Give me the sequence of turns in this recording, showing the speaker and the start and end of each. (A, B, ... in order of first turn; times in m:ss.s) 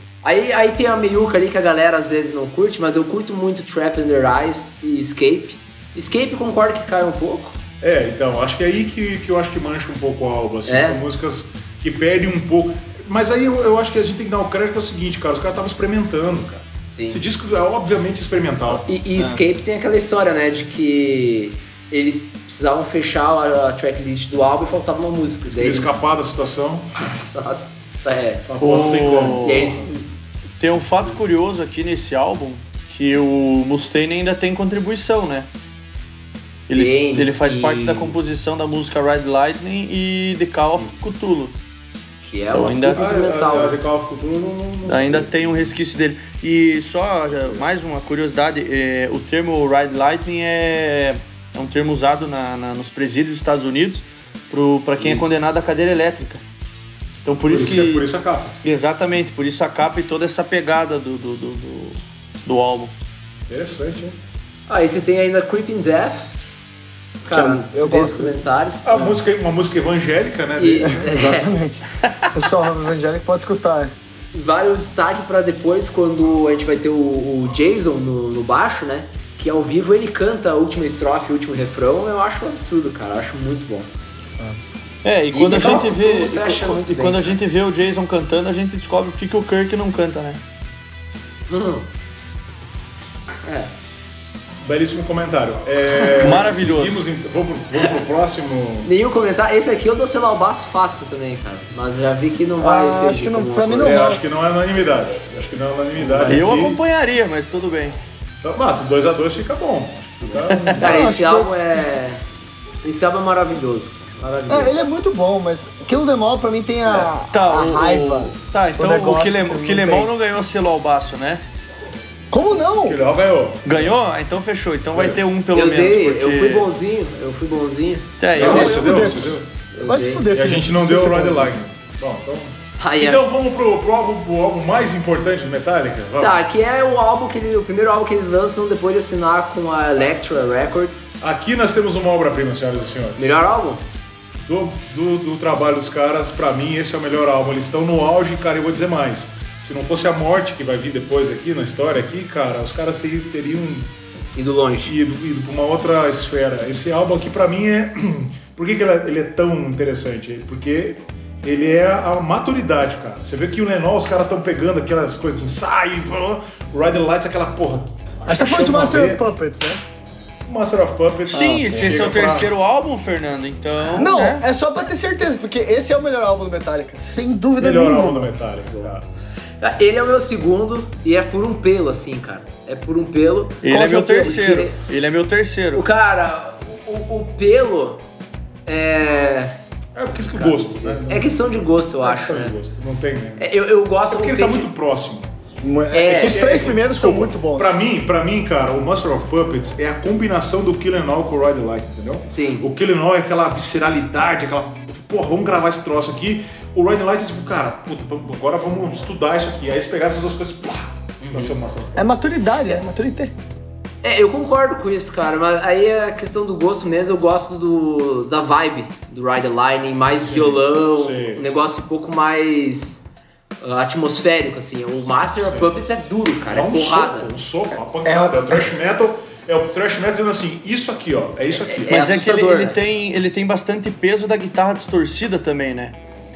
0:00.2-0:07.6 A
0:07.8-0:18.9 B
0:10.6-0:11.0 A
0:16.9-0:17.2 A
0:18.8-0:26.1 A
0:25.4-0:26.9 B
0:27.0-0:28.4 A
0:28.4-0:29.9 B
0:28.6-0:29.8 C
0:29.2-0:30.1 A
0:30.6-0:35.5 C
0:36.7-0:41.6 C
0:36.7-0:38.2 A
0:40.8-0:41.1 A
0:42.2-0:43.8 A
0:42.5-0:43.0 C
0:42.9-0:45.8 B
0:44.9-0:56.4 C
0:55.0-0:55.3 A
0:57.2-0:58.1 C
0:57.5-0:58.5 B
0:58.6-1:02.9 C
1:03.5-1:04.2 B
1:04.7-1:06.3 A
1:07.2-1:08.9 A
1:07.2-1:08.4 D
1:08.8-1:11.1 B
1:10.6-1:11.5 A
1:10.9-1:13.9 D
1:14.3-1:23.9 A
1:25.0-1:30.4 C
1:25.3-1:27.4 A
1:31.5-1:31.9 A
1:33.4-1:33.7 A
1:34.6-1:38.9 B
1:36.0-1:37.1 C
1:38.8-1:44.0 A
1:42.6-1:44.2 D
1:43.8-1:46.8 B
1:46.0-1:46.5 A
1:46.2-1:48.0 C
1:48.4-1:51.1 B
1:50.5-1:50.8 C
1:50.7-1:51.8 D
1:50.8-1:52.2 A
1:52.8-1:54.8 A
1:54.5-2:00.1 D
1:57.3-2:01.4 C
2:02.3-2:03.0 D
2:02.7-2:03.9 B
2:03.6-2:06.7 C
2:04.9-2:05.2 B
2:05.5-2:09.0 A
2:08.2-2:08.9 C
2:08.3-2:09.4 B
2:08.4-2:11.6 D
2:09.7-2:10.2 A
2:10.3-2:16.4 B
2:12.8-2:13.2 A
2:16.2-2:21.1 A
2:21.2-2:23.4 B
2:23.2-2:23.8 A
2:24.4-2:33.9 B
2:34.4-2:34.9 A
2:34.9-2:49.2 B
2:48.2-2:49.8 D
2:50.4-2:52.5 B
2:51.3-2:54.4 C
2:51.3-2:52.1 D
2:53.9-2:58.3 D
2:57.6-2:59.0 B
2:59.6-3:04.8 A
3:03.6-3:05.9 C
3:05.7-3:08.0 A
3:08.7-3:09.6 A
3:09.9-3:11.5 B
3:10.3-3:12.6 A
3:12.0-3:13.5 B
3:13.4-3:14.7 A
3:14.1-3:15.3 B
3:15.6-3:17.8 D
3:15.9-3:16.6 A
3:16.1-3:32.2 B
3:22.3-3:22.7 A
3:31.2-3:31.6 A
3:32.0-3:33.3 D
3:34.0-3:43.0 A
3:40.2-3:41.5 B
3:43.6-3:47.3 A
3:45.4-3:45.7 B
3:46.5-3:52.1 B
3:48.0-3:48.7 D
3:51.6-3:52.8 A
3:51.9-3:56.0 C